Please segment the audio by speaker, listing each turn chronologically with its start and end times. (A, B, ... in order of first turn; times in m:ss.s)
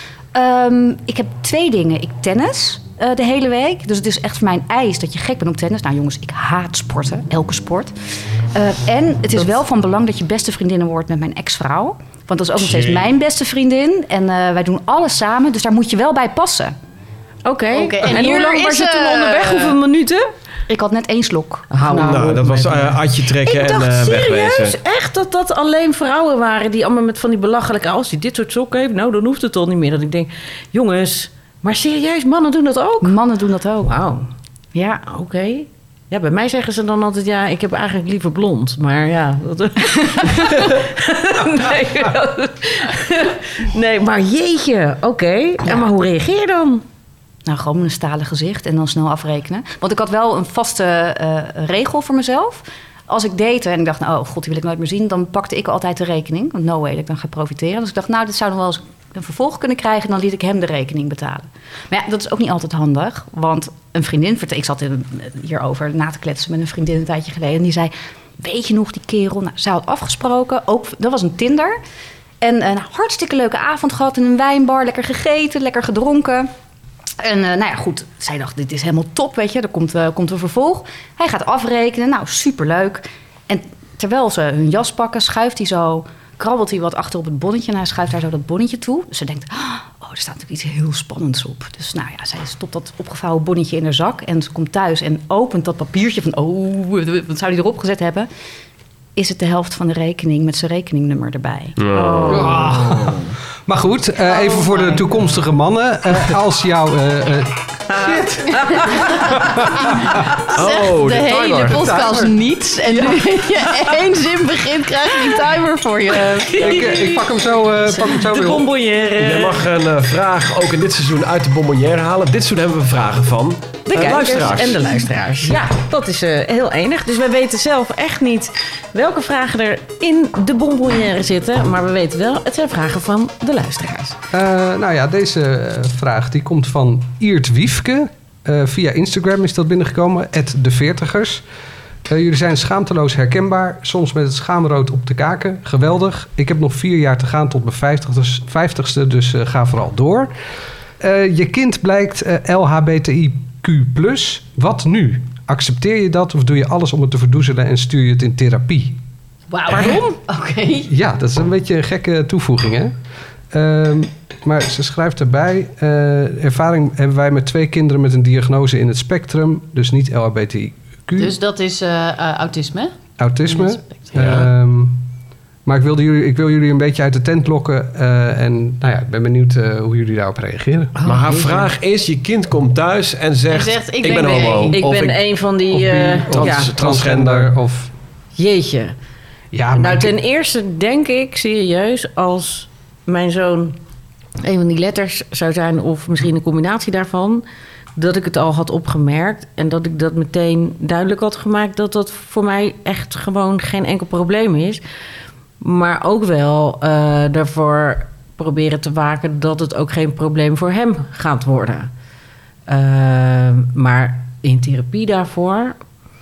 0:00.3-0:07.9 A
0:08.5-0:16.7 A
0:12.6-0:13.1 B
0:17.4-0:20.3 C
0:17.7-0:19.8 D
0:20.7-0:21.8 A
0:21.7-0:33.2 C
0:21.9-0:24.8 B
0:22.0-0:22.4 D
0:33.0-0:33.9 A
0:33.8-0:34.3 C
0:34.7-0:35.0 A
0:35.0-0:46.8 C
0:47.4-1:11.8 A
1:12.4-1:16.5 A
1:17.2-1:38.3 A
1:39.2-1:41.8 A
1:41.8-1:42.6 B
1:41.9-1:43.3 C
1:42.3-1:50.2 E
1:44.5-1:44.8 D
1:47.9-1:49.1 C
1:49.6-1:56.7 D
1:50.5-1:51.8 B
1:51.3-1:52.4 E
1:56.1-1:59.6 C
1:56.6-1:58.7 E
1:59.2-2:04.8 B
2:03.9-2:14.2 C
2:14.3-2:21.4 E
2:22.0-2:30.3 E
2:31.0-2:39.0 E
2:39.5-2:40.9 D
2:39.7-2:40.2 C
2:40.9-2:42.9 E
2:43.5-2:51.3 E
2:51.2-2:52.9 D
2:53.2-2:55.0 E
2:53.5-2:54.1 D
2:54.1-2:54.5 B
2:55.6-3:00.9 E
3:01.0-3:01.7 C
3:01.0-3:05.2 B
3:03.5-3:04.8 D
3:04.7-3:06.7 C
3:05.7-3:07.9 E
3:06.3-3:07.5 B
3:08.4-3:08.9 C
3:09.5-3:10.1 E
3:09.7-3:13.8 C
3:14.4-3:17.4 C
3:18.0-3:24.8 C
3:25.6-3:31.9 C
3:32.7-3:35.8 C